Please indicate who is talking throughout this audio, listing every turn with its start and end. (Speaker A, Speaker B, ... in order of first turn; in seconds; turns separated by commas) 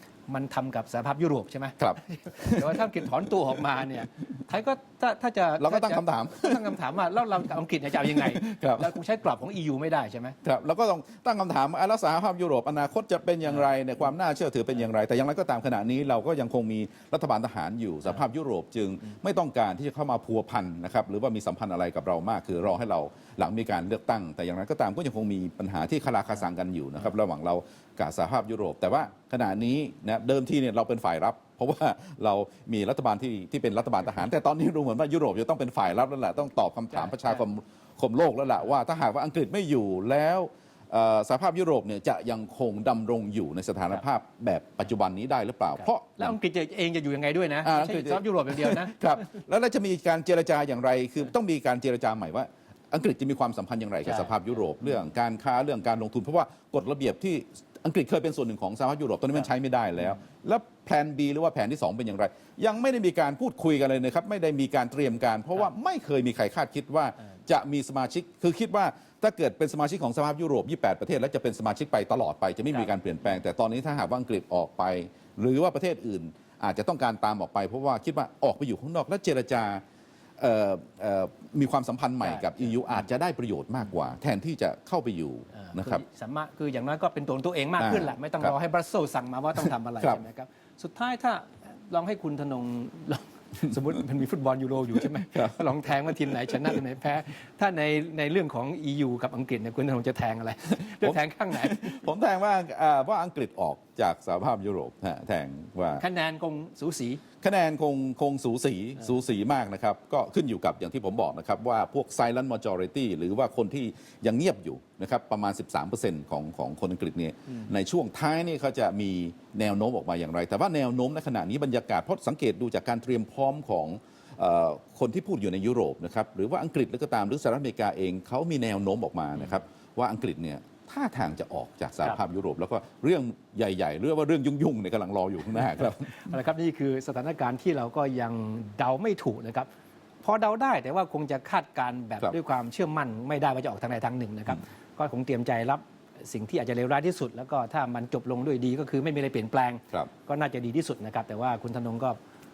Speaker A: 0.3-10.4, Speaker B: 1.8-2.9, Speaker B: 5.6-6.7, Speaker B: 8.1-8.9, Speaker B: 10.4-46.4, Speaker A: 37.0-37.3, Speaker A: 46.2-49.0, Speaker B: 47.6-79.8, Speaker B: 80.4-86.0, Speaker A: 82.3-82.6, Speaker A: 85.6-102.0, Speaker B: 87.8-88.5, Speaker B: 95.3-95.7, Speaker B: 100.7-106.0, Speaker A: 106.0-107.2, Speaker B: 107.4-136.2, Speaker A: 136.1-139.7, Speaker A: 140.2-152.2